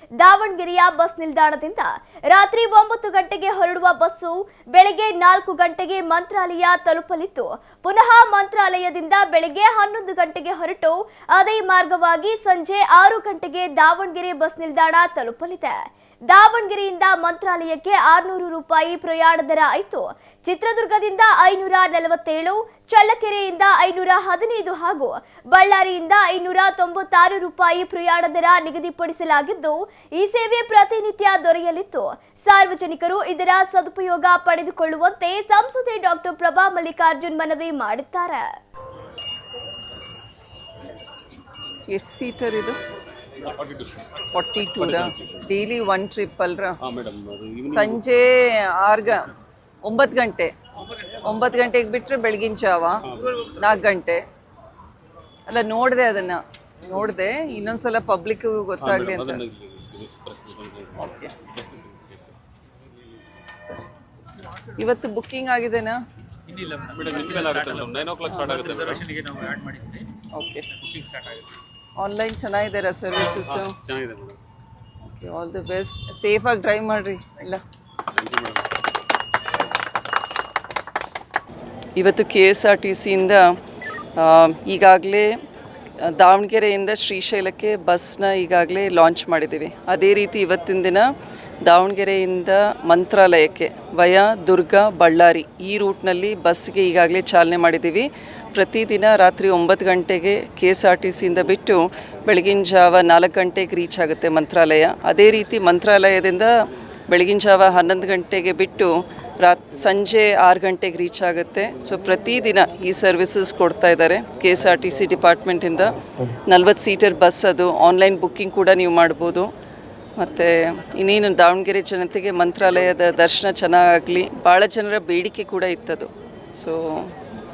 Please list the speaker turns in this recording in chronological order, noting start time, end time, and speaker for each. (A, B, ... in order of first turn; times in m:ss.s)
0:00.2-0:15.8 A
0:16.3-0:38.4 A
0:41.9-0:42.8 B
0:43.4-0:45.6 C
0:44.3-0:46.8 B
0:46.8-0:48.0 C
0:47.7-0:49.3 B
0:49.8-0:50.5 B
0:51.2-0:53.0 B
0:53.0-0:53.5 C
0:53.6-0:54.2 B
0:55.5-0:59.4 B
0:58.8-1:02.4 C
1:04.8-1:06.0 B
1:06.5-1:10.1 D
1:06.9-1:09.1 C
1:10.4-1:10.6 B
1:10.8-1:11.5 D
1:12.0-1:13.8 B
1:13.4-1:14.4 C
1:15.2-1:17.6 B
1:18.1-1:18.7 C
1:22.0-1:23.6 B
1:24.2-1:25.3 B
1:26.0-1:31.1 B
1:31.6-1:59.5 B
2:00.2-2:07.2 B